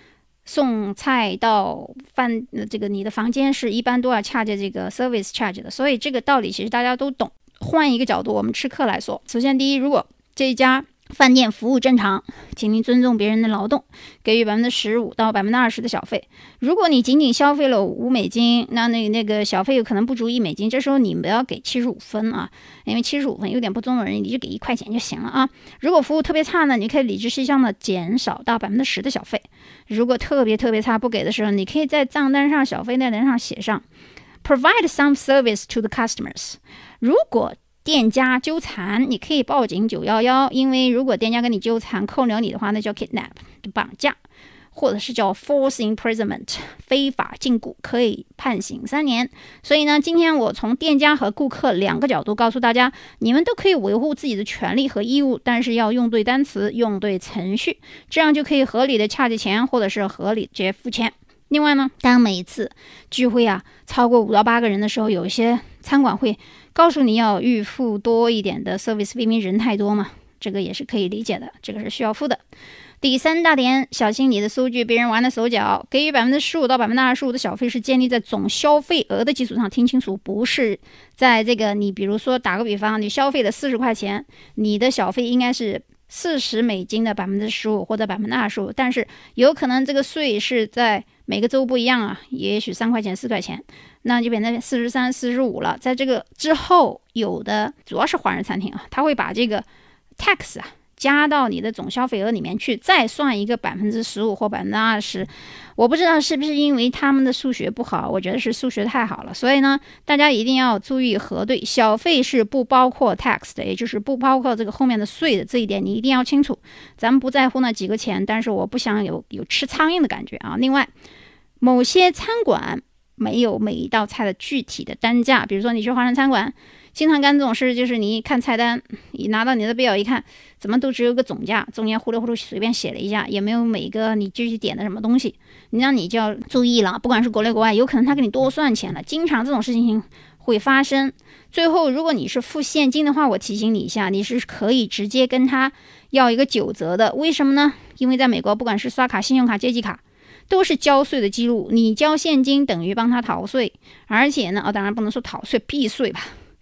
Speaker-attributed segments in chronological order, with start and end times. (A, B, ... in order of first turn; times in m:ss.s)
0:00.4-0:33.8 A
0:34.4-0:44.2 A
0:44.7-1:12.4 A
1:13.0-1:39.6 A
1:40.2-2:00.9 A
2:01.6-2:36.4 A